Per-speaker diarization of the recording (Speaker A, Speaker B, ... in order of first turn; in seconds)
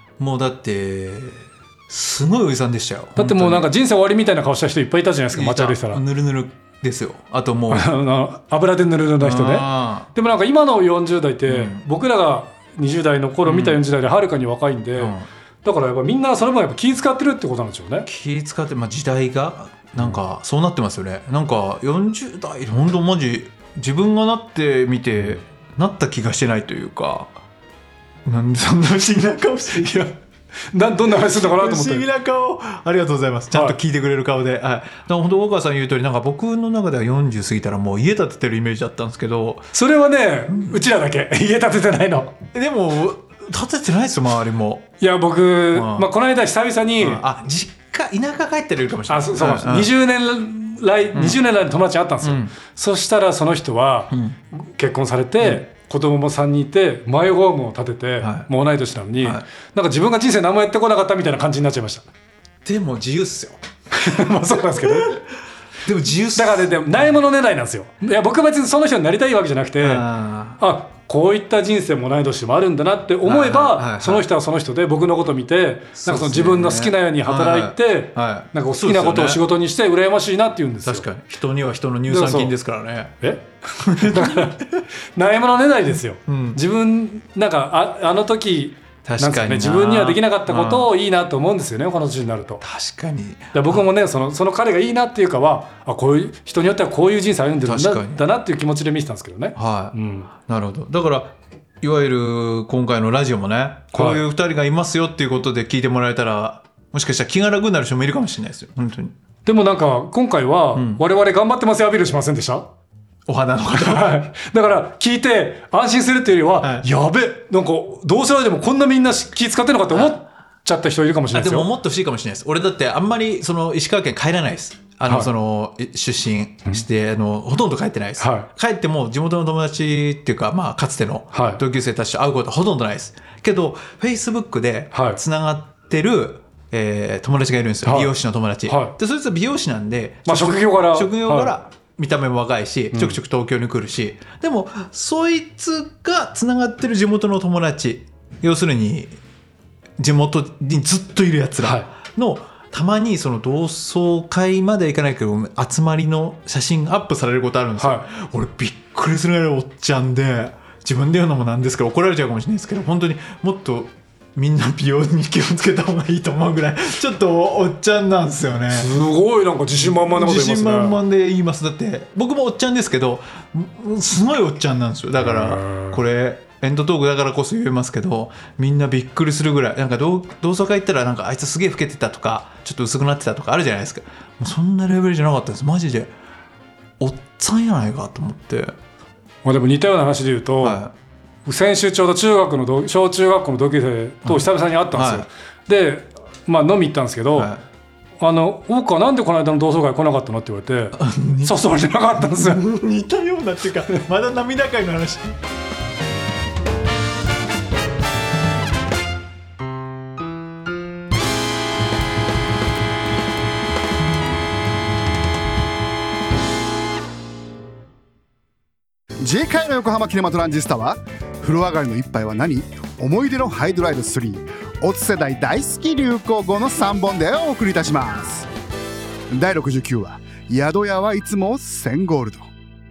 Speaker A: 0.2-3.7, 5.3-7.8, 9.2-10.1, 11.5-11.8, 13.4-13.8, 15.0-15.2, 18.1-27.3, 28.2-30.1, 31.2-39.7, 40.5-40.8, 42.5-44.9, 45.7-46.1, 47.0-49.9, 52.2-52.5, 58.2-58.5, 62.6-63.6, 64.1-65.2, 65.8-66.8, 69.8-70.6, 73.2-74.2, 76.0-79.4, 80.8-83.2, 83.8-84.8, 86.3-86.6, 89.0-90.9, 92.6-93.8, 97.7-98.2, 99.5-109.1, 110.7-111.0, 113.3-114.1, 116.6-116.8, 121.3-149.1, 150.0-168.9, 169.8-186.1, 187.0-188.8, 190.6-190.9, 194.2-195.2, 197.3-197.6, 200.9-201.5, 202.2-205.4
Speaker B: 3.2-6.0, 7.7-18.1, 29.7-30.1, 30.7-32.0, 33.5-33.8, 39.7-42.4, 45.0-47.2, 49.1-62.0, 63.9-65.2, 66.3-70.0, 70.6-81.0, 82.1-82.5, 83.2-84.6, 85.2-92.6, 93.5-100.3, 103.9-104.2, 109.4-112.7, 113.7-121.7, 128.2-128.5, 131.3-131.6, 134.9-135.2, 137.8-138.1, 138.7-138.9, 140.2-141.5, 151.6-151.8, 157.8-158.1, 168.7-171.0, 175.2-176.0, 189.4-190.8, 191.4-197.5, 198.2-202.6
Speaker C: 219.2-228.5, 229.3-232.5